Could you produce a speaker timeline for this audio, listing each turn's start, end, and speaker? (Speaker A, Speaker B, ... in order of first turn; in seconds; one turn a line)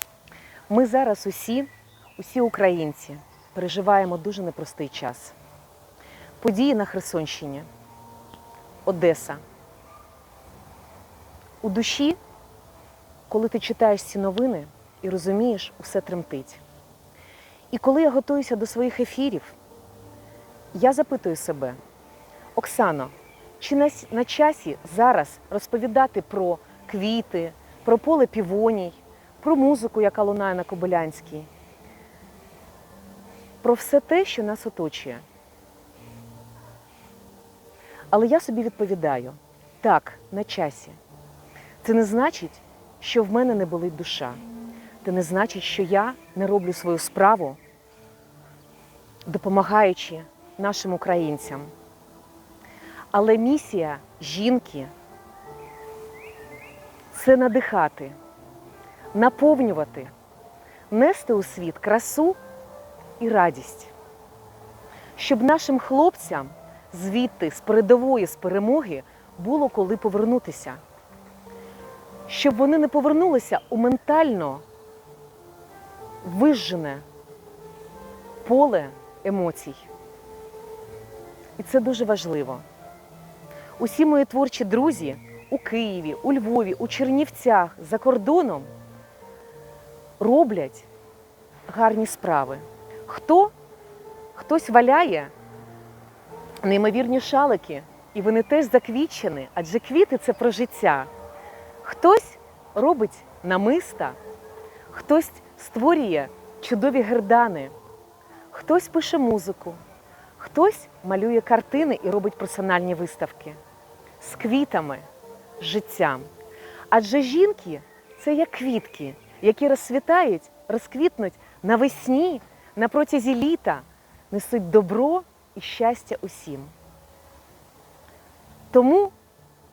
Speaker A: 0.7-5.4
Speaker A: 6.4-7.7
Speaker A: 8.8-9.4
Speaker A: 11.6-12.2
Speaker A: 13.3-16.6
Speaker A: 17.7-19.6
Speaker A: 20.7-21.8
Speaker A: 22.6-31.5
Speaker A: 33.6-35.2
Speaker A: 38.1-41.0
Speaker A: 41.8-44.4
Speaker A: 45.0-47.6
Speaker A: 49.3-51.7
Speaker A: 53.1-54.9
Speaker A: 57.1-58.2
Speaker A: 59.1-60.1
Speaker A: 60.9-62.4
Speaker A: 63.2-63.9
Speaker A: 65.2-70.8
Speaker A: 72.3-74.6
Speaker A: 76.2-77.0
Speaker A: 78.4-79.9
Speaker A: 81.6-82.7
Speaker A: 83.8-88.7
Speaker A: 90.2-90.9
Speaker A: 91.7-93.5
Speaker A: 94.3-95.3
Speaker A: 96.6-101.1
Speaker A: 101.8-104.2
Speaker A: 104.9-107.7
Speaker A: 108.5-109.8
Speaker A: 110.4-113.6
Speaker A: 114.2-115.1
Speaker A: 115.6-116.3
Speaker A: 116.9-126.7
Speaker A: 128.7-129.1